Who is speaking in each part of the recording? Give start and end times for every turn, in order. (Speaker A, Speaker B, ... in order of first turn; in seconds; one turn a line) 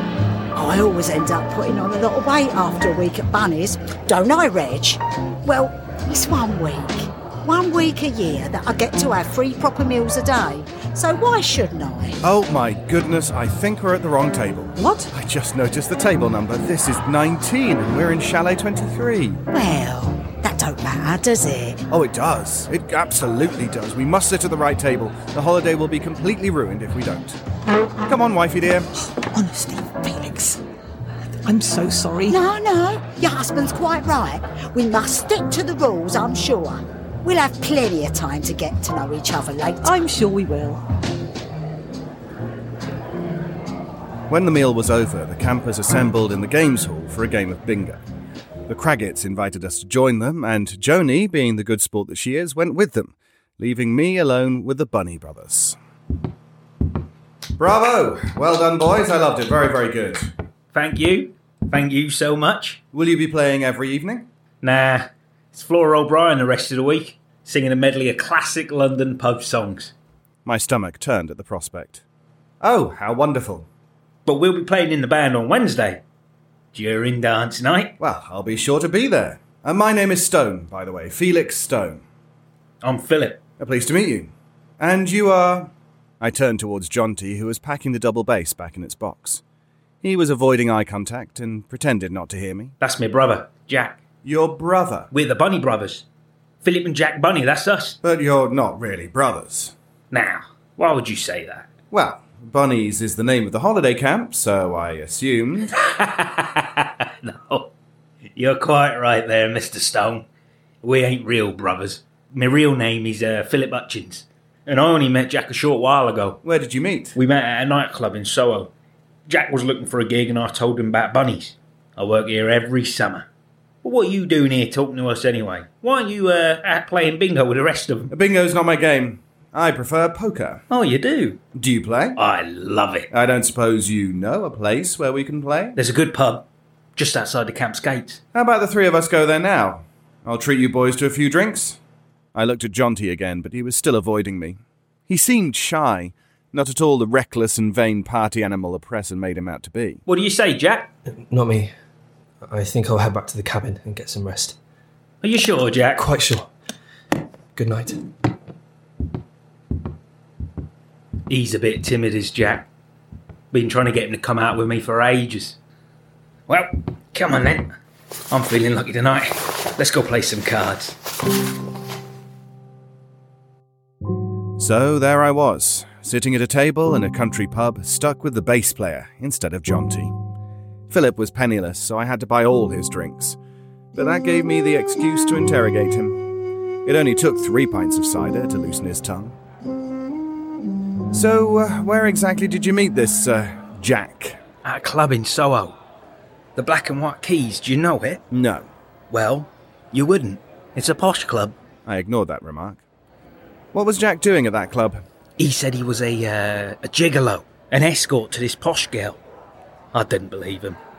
Speaker A: 0.5-12.2
Speaker B: 12.2-19.4
Speaker C: 14.8-15.1
Speaker A: 19.5-21.9
Speaker B: 21.9-27.4
Speaker B: 28.1-28.9
Speaker C: 28.9-30.6
Speaker C: 31.4-32.4
Speaker A: 32.3-40.0
Speaker C: 39.8-40.8
Speaker B: 44.3-48.0
Speaker B: 48.7-55.8
Speaker B: 57.6-60.3
Speaker D: 60.7-62.8
Speaker B: 62.9-64.3
Speaker D: 64.6-69.9
Speaker B: 70.5-72.0
Speaker B: 72.6-73.7
Speaker D: 74.3-76.0
Speaker D: 76.7-78.0
Speaker B: 78.0-82.0
Speaker D: 82.8-83.4
Speaker B: 83.6-89.4
Speaker B: 90.0-92.8
Speaker D: 92.8-94.0
Speaker B: 94.2-95.1
Speaker D: 95.1-96.0
Speaker D: 96.6-98.0
Speaker B: 98.0-99.7
Speaker D: 100.1-101.7
Speaker B: 101.9-105.7
Speaker D: 105.7-107.7
Speaker D: 108.3-110.3
Speaker D: 110.8-116.4
Speaker B: 116.4-117.2
Speaker D: 117.2-118.7
Speaker D: 119.3-123.3
Speaker D: 123.8-128.1
Speaker B: 128.1-130.6
Speaker D: 130.7-131.4
Speaker B: 131.6-132.2
Speaker D: 132.2-133.1
Speaker B: 133.1-135.8
Speaker D: 135.8-138.2
Speaker B: 138.3-141.8
Speaker B: 142.3-150.0
Speaker D: 150.1-150.9
Speaker E: 151.1-151.7
Speaker E: 152.4-154.6
Speaker D: 155.2-156.1
Speaker E: 155.9-156.5
Speaker E: 157.6-158.0
Speaker D: 161.3-162.7
Speaker D: 163.5-165.6
Speaker D: 166.5-167.7
Speaker D: 168.3-171.0
Speaker B: 174.6-180.1
Speaker B: 180.9-183.4
Speaker B: 183.9-186.2
Speaker B: 186.8-189.4
Speaker B: 191.1-194.4
Speaker D: 194.6-195.8
Speaker D: 196.6-198.2
Speaker B: 198.3-198.7
Speaker D: 199.1-201.6
Speaker B: 201.9-202.8
Speaker B: 203.7-205.0
Speaker D: 205.4-209.2
Speaker D: 209.9-210.8